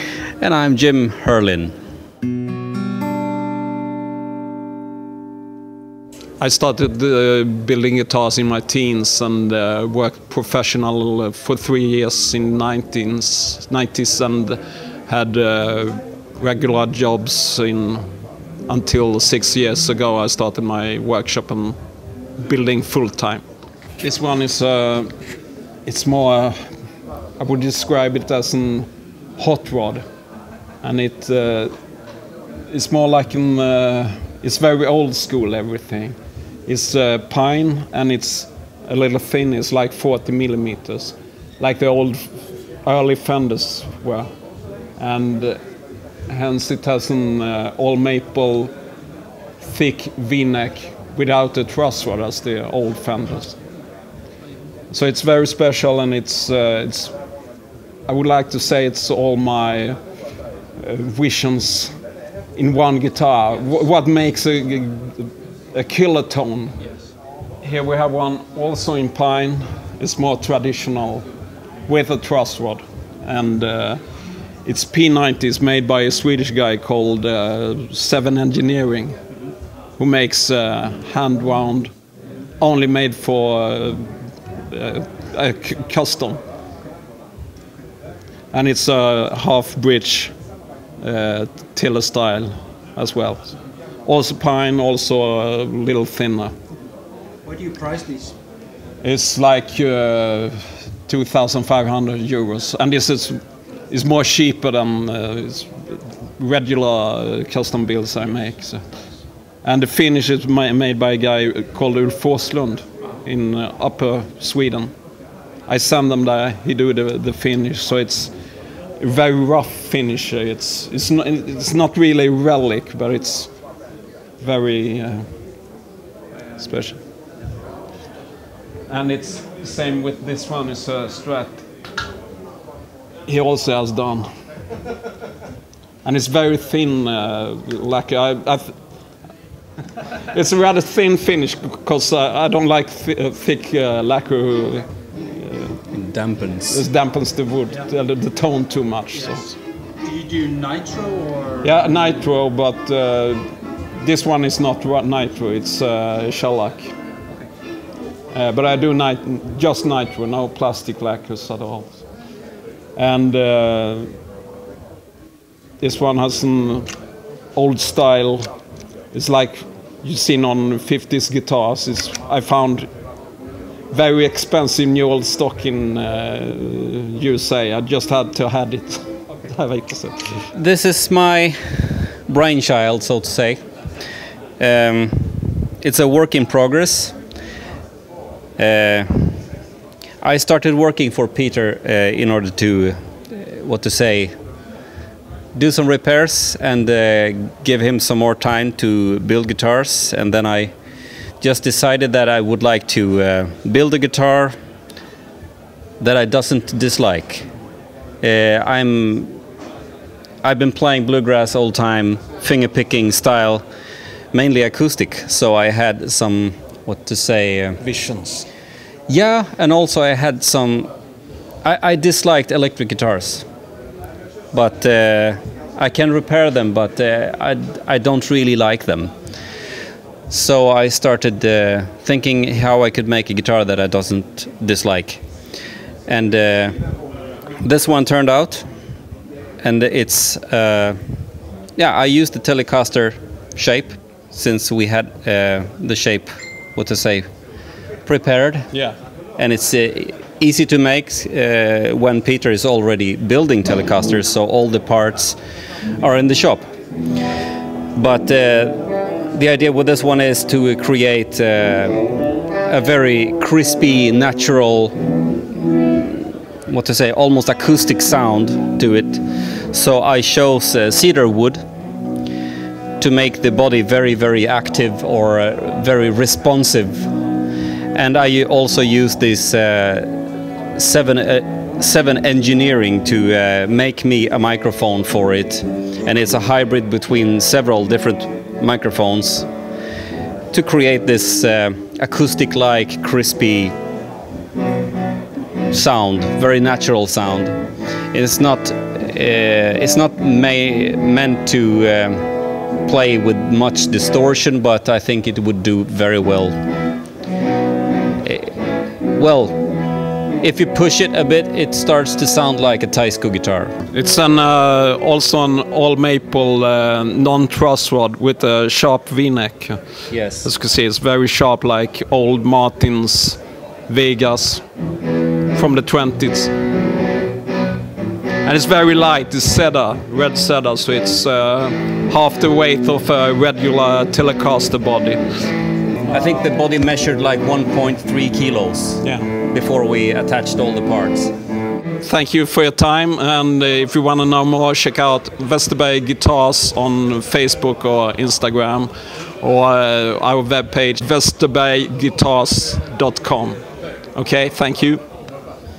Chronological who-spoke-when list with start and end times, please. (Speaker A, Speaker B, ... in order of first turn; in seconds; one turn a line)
Speaker A: 0.4-1.7
Speaker B: 6.4-18.1
Speaker B: 18.7-21.8
Speaker B: 22.4-23.4
Speaker B: 24.0-25.1
Speaker B: 25.9-26.6
Speaker B: 27.4-30.1
Speaker B: 30.8-31.7
Speaker B: 32.7-42.3
Speaker B: 42.8-44.3
Speaker B: 45.0-45.6
Speaker B: 46.3-48.7
Speaker B: 49.6-53.6
Speaker B: 54.9-57.1
Speaker B: 58.1-60.0
Speaker B: 60.8-62.0
Speaker B: 62.6-66.8
Speaker B: 67.6-71.2
Speaker B: 71.9-74.0
Speaker B: 74.7-79.2
Speaker B: 80.0-81.9
Speaker B: 82.6-84.1
Speaker B: 84.7-86.4
Speaker B: 88.5-90.3
Speaker B: 91.0-93.5
Speaker B: 94.1-96.5
Speaker C: 97.5-98.3
Speaker B: 99.0-103.4
Speaker B: 103.9-108.8
Speaker B: 109.6-114.9
Speaker B: 115.7-118.3
Speaker B: 119.0-123.5
Speaker B: 124.4-125.3
Speaker B: 126.6-127.0
Speaker B: 128.9-131.7
Speaker B: 133.3-134.3
Speaker B: 136.0-138.8
Speaker B: 140.1-145.8
Speaker A: 145.9-146.8
Speaker B: 146.7-149.6
Speaker C: 150.0-151.6
Speaker B: 151.6-153.5
Speaker B: 154.0-156.9
Speaker B: 158.3-162.0
Speaker B: 163.0-164.1
Speaker B: 165.8-166.9
Speaker B: 167.6-168.5
Speaker B: 169.1-172.9
Speaker B: 173.9-180.5
Speaker A: 180.5-183.6
Speaker A: 184.6-187.2
Speaker A: 188.6-189.4
Speaker A: 190.2-194.3
Speaker A: 195.6-200.7
Speaker A: 201.4-204.6
Speaker A: 206.0-207.5
Speaker A: 208.2-209.3
Speaker A: 210.4-213.7
Speaker A: 214.3-217.8
Speaker B: 217.8-218.5
Speaker A: 219.1-220.9
Speaker A: 221.6-223.4
Speaker A: 224.5-229.1
Speaker A: 230.3-235.2
Speaker A: 236.1-236.8
Speaker A: 237.6-238.7
Speaker A: 239.6-241.0
Speaker A: 241.8-247.3
Speaker A: 248.1-248.7
Speaker A: 249.4-255.4
Speaker A: 256.0-256.7
Speaker A: 257.9-262.0
Speaker A: 262.6-265.0
Speaker A: 266.0-269.2
Speaker A: 269.7-271.6
Speaker A: 273.0-277.1
Speaker A: 277.9-280.2
Speaker A: 280.8-289.5
Speaker A: 290.5-293.7
Speaker A: 295.7-297.5
Speaker A: 298.1-302.3
Speaker A: 302.9-306.6
Speaker A: 308.2-308.6
Speaker A: 309.1-309.6
Speaker A: 310.4-313.8
Speaker B: 313.9-319.8
Speaker A: 320.1-320.5
Speaker B: 320.4-324.6
Speaker B: 325.5-326.5
Speaker B: 328.4-335.4
Speaker A: 336.1-341.3
Speaker B: 342.0-353.6
Speaker B: 354.1-355.0